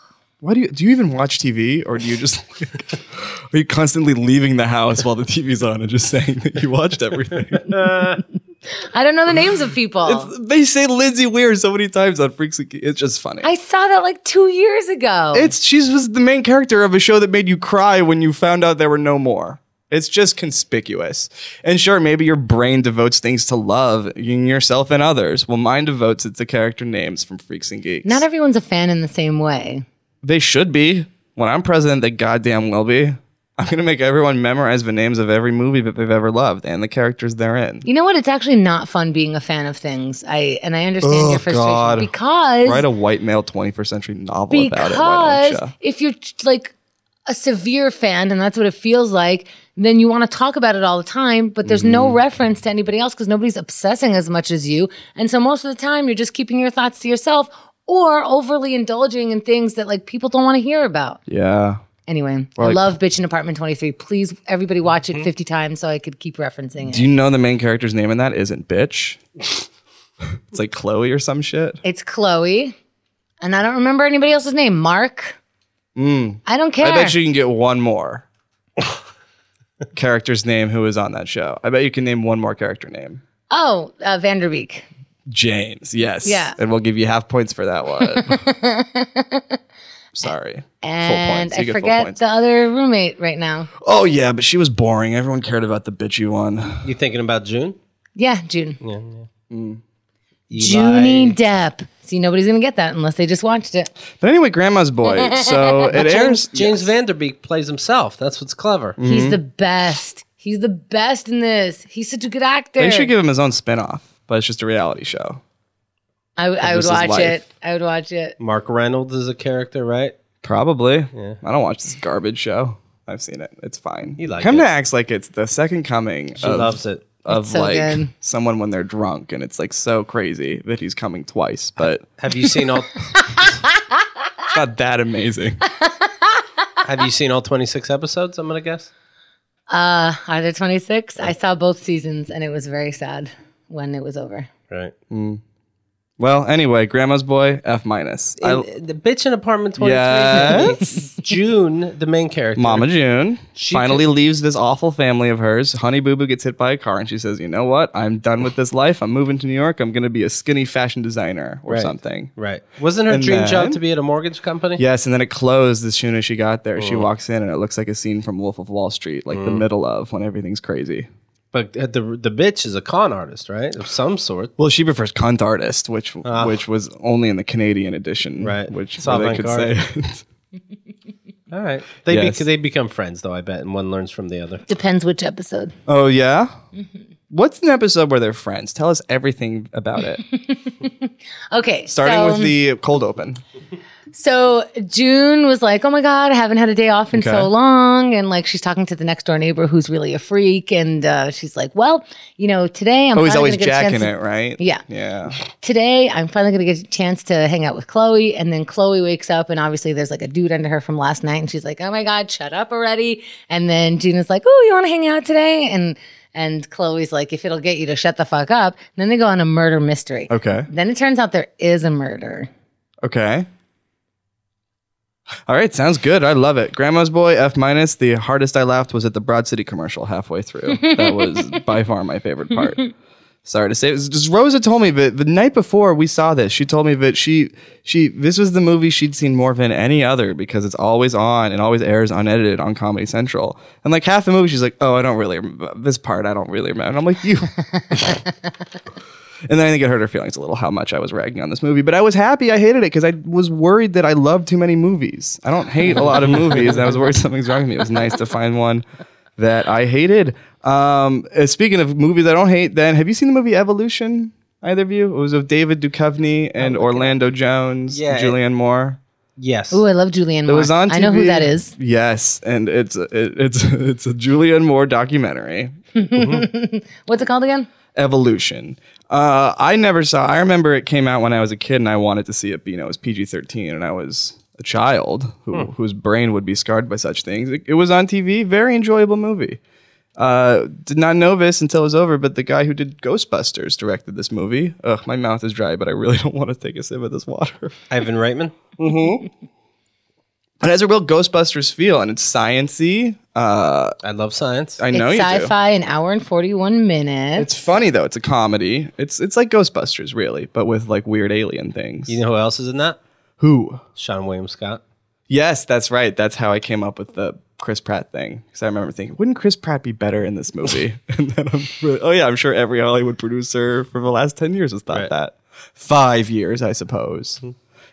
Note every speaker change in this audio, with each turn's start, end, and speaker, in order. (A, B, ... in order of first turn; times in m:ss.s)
0:00.4-0:08.2 A
0:08.8-0:10.3 B
0:10.0-0:13.5 A
0:13.4-0:15.5 B
0:15.3-0:28.2 A
0:28.0-0:29.8 B
0:30.2-0:37.8 A
0:37.8-0:42.8 B
0:41.0-0:42.1 A
0:42.6-0:45.7 A
0:44.5-0:46.7 B
0:47.3-1:01.2 B
0:51.6-0:52.2 A
1:01.3-1:01.8 A
1:02.1-1:07.1 B
1:02.6-1:02.9 A
1:06.8-1:09.4 A
1:10.5-1:11.8 A
1:11.8-1:12.8 B
1:13.4-1:15.4 B
1:16.0-1:18.2 A
1:16.4-1:17.2 B
1:19.9-1:23.2 A
1:23.5-1:24.8 B
1:25.3-1:28.4 A
1:26.2-1:26.6 B
1:28.0-1:29.6 B
1:30.1-1:32.2 A
1:30.8-1:33.7 B
1:33.8-1:36.9 A
1:36.8-1:37.8 C
1:38.2-1:38.8 B
1:38.8-1:39.3 C
1:39.5-1:39.8 A
1:40.5-1:41.4 C
1:40.5-1:43.9 B
1:44.2-1:46.9 A
1:45.0-1:45.9 B
1:45.9-1:49.0 C
1:49.0-1:49.4 A
1:49.0-1:53.1 B
1:52.8-1:55.4 A
1:56.4-1:58.4 B
1:56.6-1:57.4 A
1:58.4-2:00.2 C
2:00.4-2:12.0 A
2:01.1-2:01.4 C
2:04.2-2:04.7 C
2:06.4-2:07.0 C
2:07.3-2:08.1 B
2:12.2-2:13.4 C
2:13.1-2:14.0 B
2:14.5-2:15.6 A
2:15.8-2:16.4 B
2:16.8-2:18.9 C
2:19.7-2:24.5 B
2:25.1-2:25.4 A
2:26.2-2:28.6 A
2:28.4-2:32.9 C
2:29.8-2:30.8 A
2:30.4-2:31.1 B
2:32.6-2:42.3 A
2:33.6-2:34.0 C
2:41.7-2:44.8 C
2:43.1-2:43.8 A
2:44.8-2:51.1 A
2:46.8-2:47.1 C
2:49.3-2:49.6 C
2:51.5-2:54.5 C
2:54.6-3:00.2 A
2:56.2-2:56.6 C
2:58.4-2:59.7 C
3:01.5-3:04.6 C
3:02.1-3:02.4 A
3:04.7-3:05.8 B
3:05.9-3:06.5 A
3:07.3-3:10.2 A
3:10.2-3:12.6 B
3:11.9-3:13.4 A
3:14.1-3:24.8 B
3:17.1-3:17.5 A
3:23.2-3:25.4 A
3:25.5-3:42.5 B
3:40.3-3:40.7 A
3:43.0-3:43.5 A
3:45.4-3:52.9 A
3:50.8-3:51.1 B
3:53.4-4:08.2 A
4:09.5-4:18.8 A
4:19.4-4:29.0 A
4:26.6-4:27.1 B
4:27.9-4:28.4 C
4:29.4-4:29.8 C
4:29.7-4:31.7 B
4:30.5-4:35.7 A
4:35.9-4:37.7 B
4:36.1-4:36.5 C
4:37.9-4:49.6 A
4:50.2-4:57.8 A
4:57.9-4:58.7 C
4:58.8-4:59.3 A
5:00.6-5:03.9 A
5:04.0-5:04.8 C
5:04.8-5:05.5 A
5:04.9-5:07.5 B
5:07.4-5:12.2 A
5:12.1-5:13.0 C
5:13.4-5:13.8 A
5:14.0-5:14.8 C
5:15.3-5:27.4 A